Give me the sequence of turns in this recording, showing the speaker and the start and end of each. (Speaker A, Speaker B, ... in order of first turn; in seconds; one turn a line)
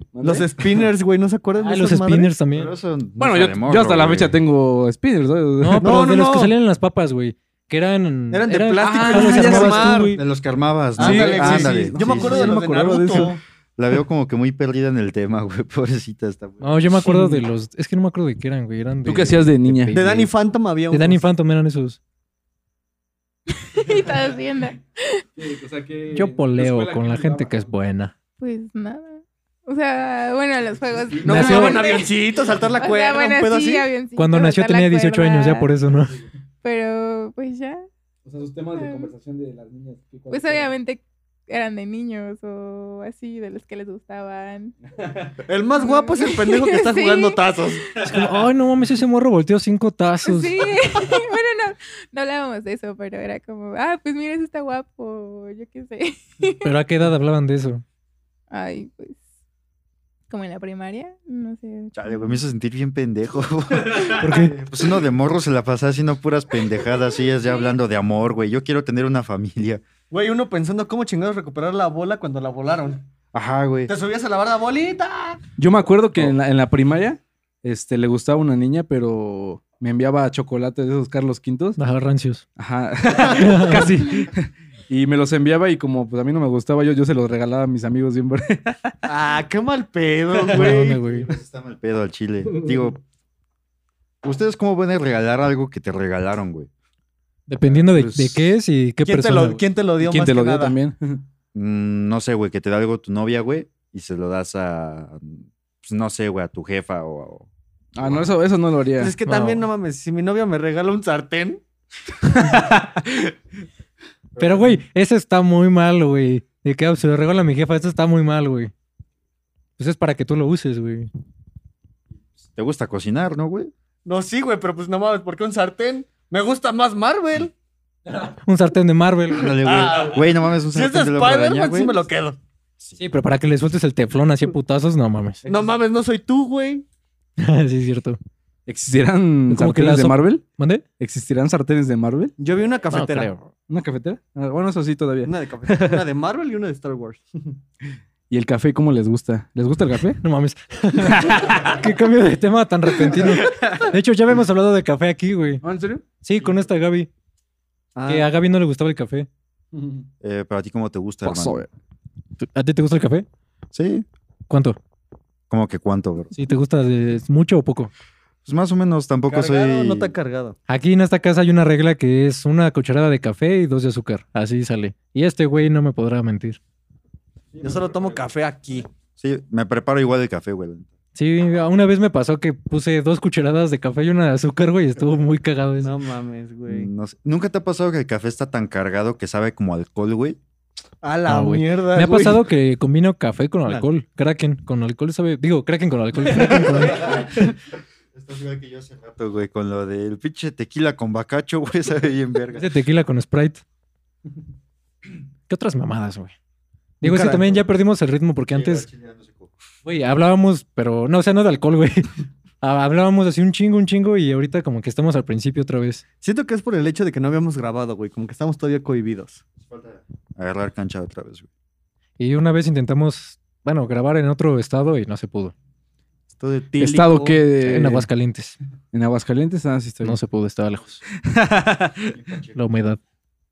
Speaker A: 0.1-0.9
Speaker B: 0.2-2.3
Speaker C: 1.6-2.7
Speaker D: 2.5-4.4
Speaker A: 3.2-6.0
Speaker C: 5.6-10.2
Speaker B: 5.8-6.5
Speaker B: 8.3-10.2
Speaker A: 8.8-10.0
Speaker D: 10.1-12.6
Speaker A: 11.0-13.3
Speaker B: 11.0-13.4
Speaker D: 13.8-16.8
Speaker C: 16.6-20.3
Speaker A: 17.0-17.4
Speaker A: 19.1-20.1
Speaker B: 19.9-21.2
Speaker C: 20.9-22.0
Speaker E: 23.5-25.3
Speaker A: 25.4-27.7
Speaker C: 26.1-28.1
Speaker E: 28.4-35.7
Speaker C: 31.2-31.8
Speaker B: 31.2-33.9
Speaker C: 34.2-36.2
Speaker E: 36.6-37.9
Speaker A: 38.3-40.7
Speaker E: 38.8-39.1
Speaker E: 40.3-44.8
Speaker A: 45.0-45.4
Speaker B: 45.5-47.9
Speaker E: 45.8-48.1
Speaker C: 48.0-50.8
Speaker E: 50.2-56.7
Speaker C: 56.6-57.8
Speaker E: 58.5-59.2
Speaker E: 60.3-62.4
Speaker D: 62.0-69.8
Speaker C: 64.1-64.6
Speaker B: 70.1-73.0
Speaker D: 73.3-73.9
Speaker B: 73.9-75.4
Speaker A: 75.6-81.8
Speaker C: 81.8-82.5
Speaker A: 82.6-89.0
Speaker C: 83.2-84.0
Speaker B: 89.1-91.3
Speaker C: 90.5-91.3
Speaker D: 90.6-93.0
Speaker D: 94.2-96.7
Speaker C: 97.5-99.6
Speaker A: 97.8-98.5
Speaker B: 99.0-100.8
Speaker A: 100.0-101.2
Speaker D: 101.5-107.5
Speaker A: 108.0-109.2
Speaker D: 108.0-108.3
Speaker B: 109.0-111.6
Speaker C: 109.3-109.7
Speaker B: 112.4-112.9
Speaker D: 114.4-114.7
Speaker C: 114.4-118.7
Speaker C: 119.8-121.1
Speaker D: 122.4-123.7
Speaker B: 124.0-127.5
Speaker C: 128.1-129.6
Speaker D: 129.3-132.0
Speaker B: 129.6-132.4
Speaker C: 133.0-135.4
Speaker B: 135.4-136.8
Speaker C: 137.4-138.2
Speaker A: 138.7-140.4
Speaker C: 139.5-140.8
Speaker A: 141.0-142.3
Speaker B: 142.4-143.3
Speaker C: 142.9-143.5
Speaker A: 143.7-146.1
Speaker B: 145.2-147.2
Speaker A: 148.3-150.2
Speaker C: 150.2-155.6
Speaker A: 151.1-151.8
Speaker A: 153.1-153.8
Speaker A: 155.6-156.0
Speaker C: 156.2-157.1
Speaker B: 158.0-158.3
Speaker C: 158.1-159.3
Speaker A: 159.7-160.1
Speaker D: 160.2-161.6
Speaker A: 161.2-161.7
Speaker C: 162.4-163.3
Speaker D: 163.7-164.1
Speaker C: 164.5-164.8
Speaker D: 165.5-166.3
Speaker C: 166.3-167.9
Speaker D: 168.4-170.1
Speaker B: 169.3-170.6
Speaker C: 170.7-176.6
Speaker B: 177.6-178.9
Speaker D: 179.2-180.9
Speaker C: 181.2-185.9
Speaker B: 185.8-186.9
Speaker D: 186.7-190.4
Speaker B: 191.0-192.4
Speaker C: 191.3-197.3
Speaker B: 196.3-197.3
Speaker D: 196.8-197.5
Speaker D: 198.1-202.7
Speaker C: 202.5-203.6
Speaker C: 205.5-206.3
Speaker C: 207.0-208.9
Speaker B: 207.0-207.6
Speaker D: 208.5-209.5
Speaker C: 209.8-212.1
Speaker C: 212.6-216.0
Speaker B: 216.2-219.4
Speaker D: 219.6-221.5
Speaker C: 222.2-225.5
Speaker B: 226.4-227.4
Speaker A: 226.8-228.1
Speaker C: 227.6-228.6
Speaker A: 228.9-230.2
Speaker C: 230.0-231.0
Speaker A: 231.3-232.0
Speaker D: 232.1-232.6
Speaker C: 232.5-233.0